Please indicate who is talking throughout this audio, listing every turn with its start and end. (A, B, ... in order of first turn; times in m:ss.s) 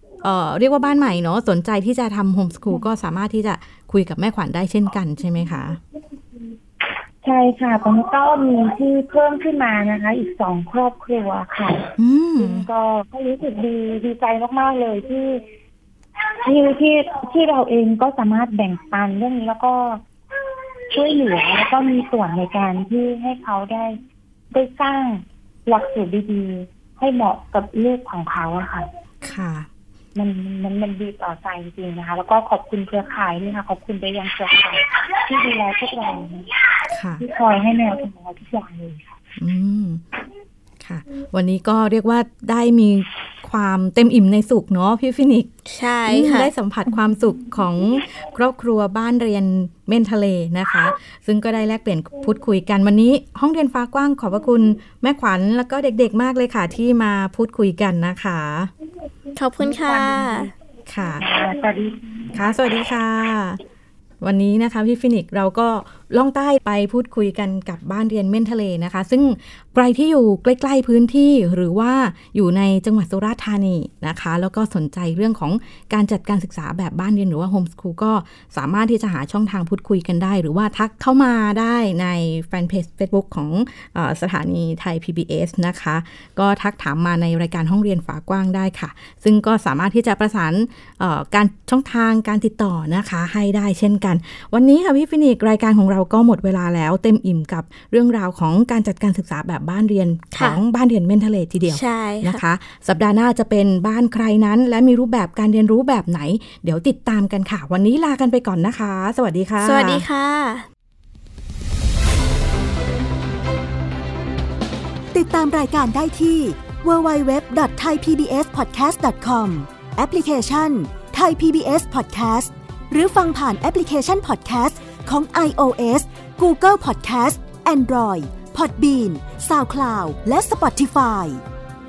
0:00.2-0:05.8 A
0:07.2-0:15.4 B
0:12.0-0:12.7 A
0:16.4-0:20.0 B
0:20.9-0:24.0 B
0:24.5-0:28.8 B
0:29.2-0:29.7 A
0:30.1-0:36.5 B
0:36.9-0:37.2 A
0:37.2-0:39.1 B
0:39.4-0:40.0 A
0:40.8-0:45.5 A
0:45.7-0:46.5 C
0:46.1-0:58.7 A
0:59.4-1:00.5 C
0:59.6-1:00.5 B
1:00.9-1:01.2 A
1:01.2-1:02.3 B
1:02.3-1:03.6 A
1:04.2-1:50.0 A
1:40.3-1:40.6 C
1:41.7-1:42.4 C
1:49.6-1:50.6 C
1:55.1-2:11.4 D